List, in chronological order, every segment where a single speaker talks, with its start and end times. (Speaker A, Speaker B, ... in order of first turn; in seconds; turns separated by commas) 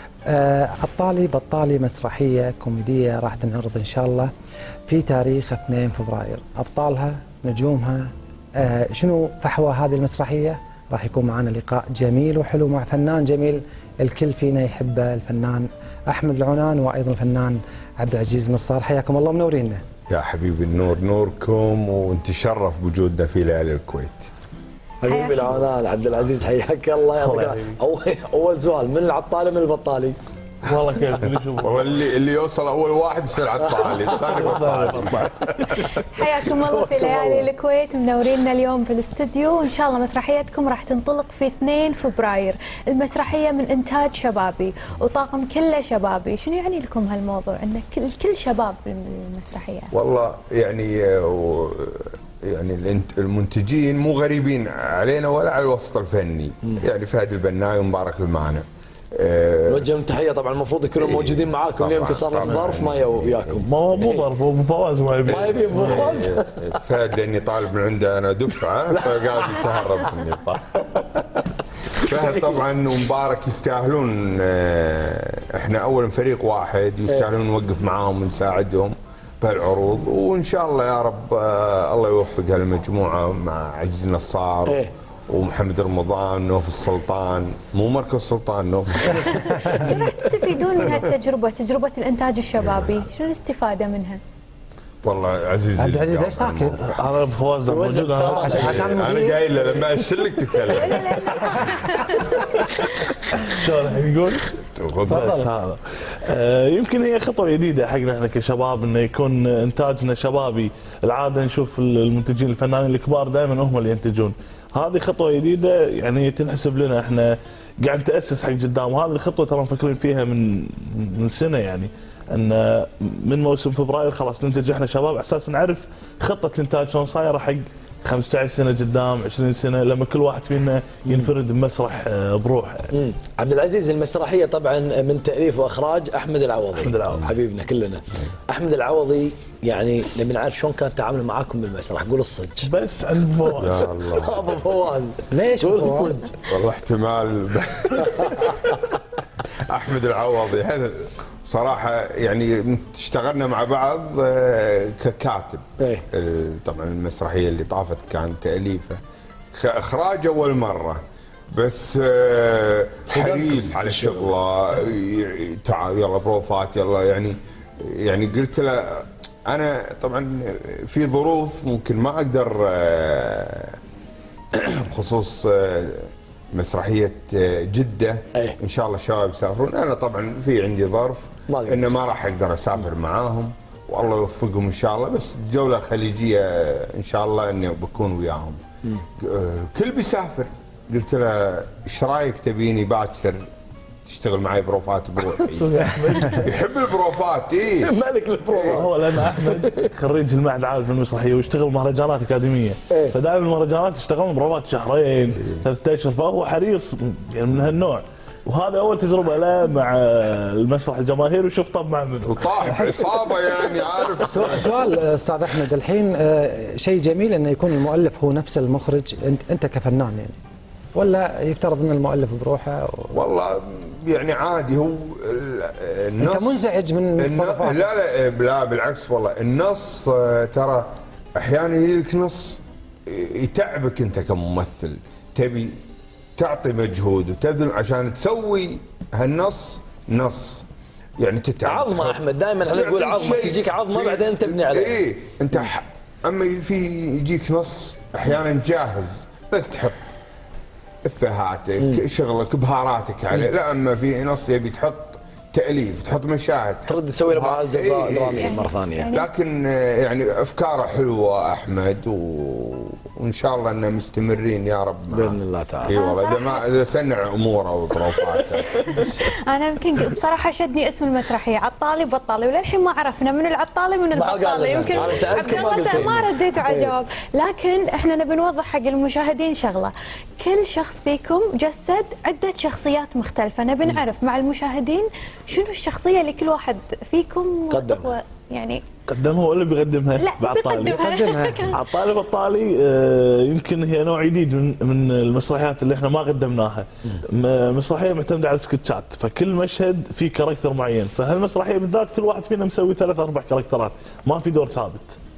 Speaker A: 0.3-4.3, Speaker A: 4.9-19.8, Speaker B: 20.1-24.3, Speaker C: 25.0-30.2, Speaker D: 25.1-25.6, Speaker E: 27.1-27.8, Speaker E: 30.6-32.0, Speaker B: 31.6-35.8, Speaker C: 33.6-35.2, Speaker E: 34.2-35.8, Speaker D: 36.1-49.9, Speaker C: 36.4-37.5, Speaker B: 49.9-60.0, Speaker C: 59.7-64.2, Speaker B: 61.0-63.6, Speaker E: 62.4-62.7, Speaker E: 63.6-66.1, Speaker B: 65.2-71.2, Speaker C: 65.3-66.8, Speaker C: 68.9-70.2, Speaker C: 72.0-72.6, Speaker B: 72.0-90.1, Speaker D: 89.2-94.2, Speaker A: 89.3-89.9, Speaker B: 92.6-93.0, Speaker B: 95.0-96.9, Speaker A: 95.8-96.8, Speaker E: 96.8-98.7, Speaker C: 97.7-99.0, Speaker A: 98.3-99.5, Speaker B: 98.6-101.6, Speaker C: 99.7-100.0, Speaker D: 100.5-102.3, Speaker A: 101.5-101.8, Speaker E: 103.5-104.5, Speaker B: 104.7-105.4, Speaker A: 105.1-105.5, Speaker E: 105.1-132.9, Speaker C: 131.1-131.3, Speaker C: 132.9-142.7, Speaker E: 136.8-137.3, Speaker E: 142.6-143.9, Speaker B: 143.6-144.6, Speaker C: 144.0-146.4, Speaker A: 145.3-146.2, Speaker B: 146.5-148.8, Speaker C: 148.2-148.7, Speaker B: 149.7-159.0, Speaker B: 159.5-173.8, Speaker C: 163.1-164.3, Speaker B: 174.5-188.6, Speaker C: 181.5-181.9, Speaker B: 189.2-193.4, Speaker B: 194.1-195.7, Speaker E: 195.6-196.5, Speaker B: 196.4-197.9, Speaker C: 197.8-199.9, Speaker B: 198.5-198.8, Speaker E: 198.6-212.4, Speaker B: 212.2-214.9, Speaker A: 212.6-213.1, Speaker A: 214.2-220.4, Speaker A: 220.9-223.2, Speaker B: 223.1-235.8, Speaker A: 226.2-227.9, Speaker B: 236.4-240.6, Speaker B: 241.2-250.0, Speaker C: 241.6-245.0, Speaker B: 251.0-258.6, Speaker C: 256.9-259.1, Speaker D: 258.3-259.3, Speaker B: 259.1-268.8, Speaker C: 265.1-265.9, Speaker D: 265.9-266.6, Speaker D: 269.4-288.8, Speaker C: 274.1-277.0, Speaker B: 274.9-275.3, Speaker C: 287.7-288.1, Speaker E: 289.1-291.0, Speaker D: 290.2-291.8, Speaker A: 290.9-291.6, Speaker E: 291.7-305.2